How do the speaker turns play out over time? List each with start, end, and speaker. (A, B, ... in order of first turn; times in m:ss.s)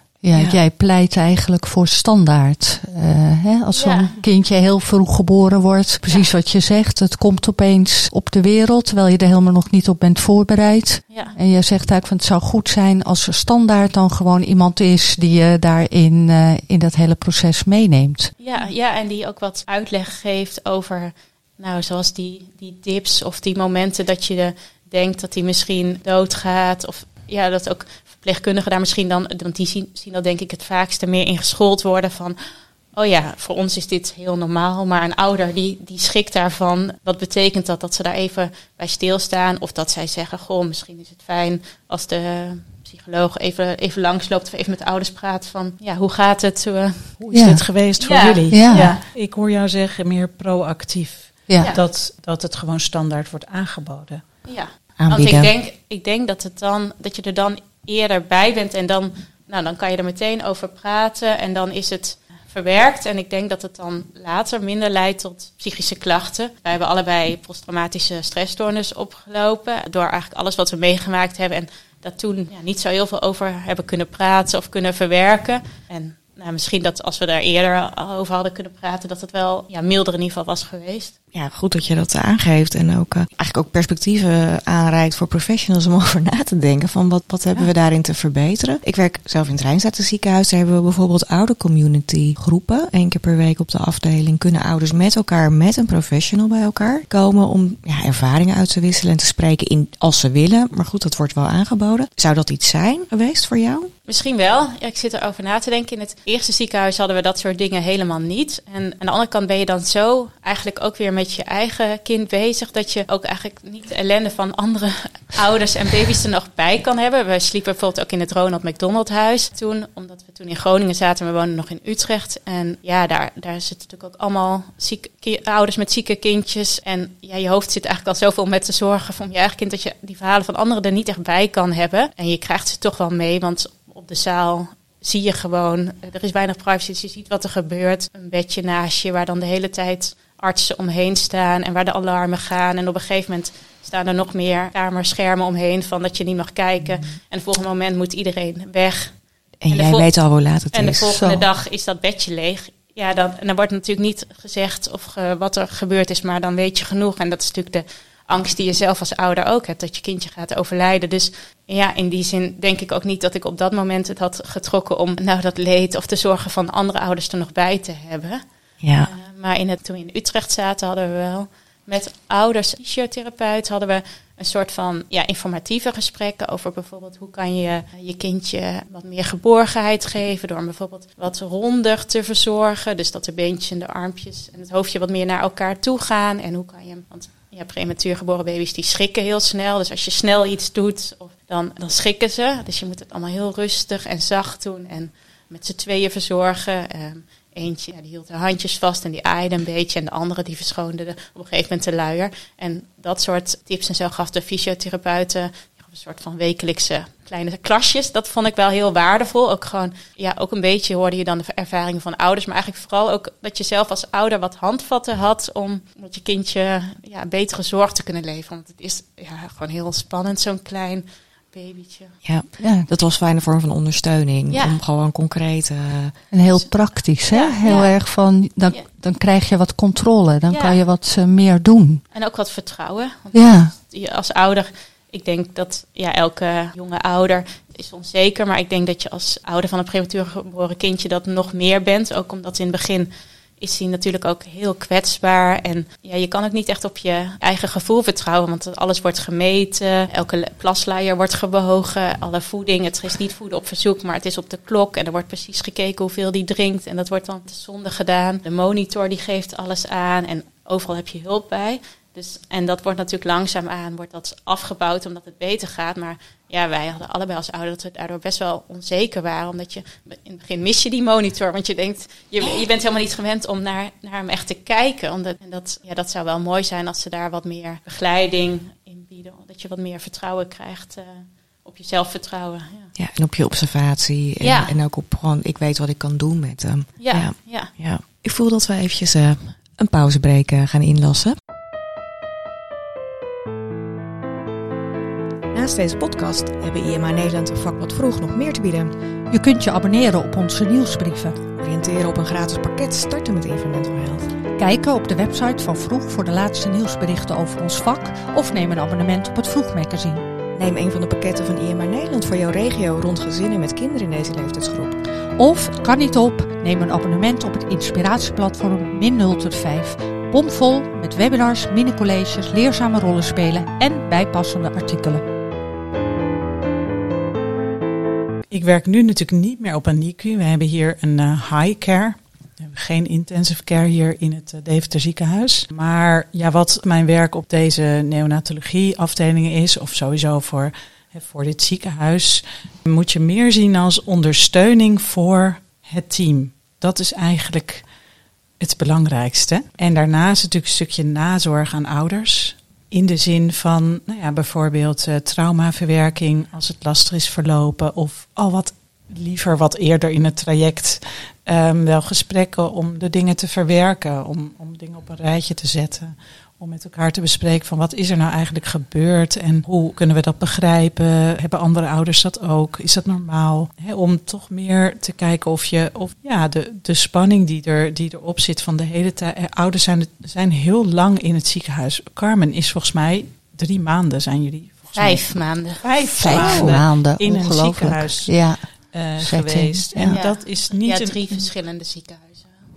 0:00.2-0:18.3 A
0:00.3-0:00.6 B
0:03.7-0:04.2 C
0:11.1-0:11.3 C
0:18.4-0:32.4 C
0:32.9-0:47.2 C
0:47.2-0:54.2 D
0:47.3-0:47.6 A
0:48.0-0:49.0 C
0:48.5-0:49.0 A
0:51.5-0:51.7 A
0:54.4-1:21.1 C
0:55.0-0:55.5 B
1:21.3-1:43.9 B
1:44.1-2:48.4 C
2:29.6-2:31.1 B
2:31.1-2:31.5 A
2:48.8-2:49.1 B
2:49.0-3:42.2 C
3:42.2-3:46.2 B
3:42.6-3:42.9 A
3:44.5-3:44.8 C
3:46.3-3:52.0 A
3:46.5-3:47.9 C
3:50.5-3:50.8 C
3:52.1-4:42.9 C
3:53.3-3:53.7 A
4:42.9-4:51.3 B
4:44.4-4:44.8 C
4:47.0-4:47.7 C
4:55.5-4:58.9 B
4:59.3-5:01.4 A
5:01.5-5:04.3 B
5:04.6-5:10.2 A
5:10.5-5:15.0 B
5:15.4-5:25.2 A
5:28.5-5:47.8 D
5:48.6-6:31.2 D
6:24.9-6:26.0 C
6:26.2-6:30.1 A
6:26.3-6:26.8 B
6:30.1-6:32.6 C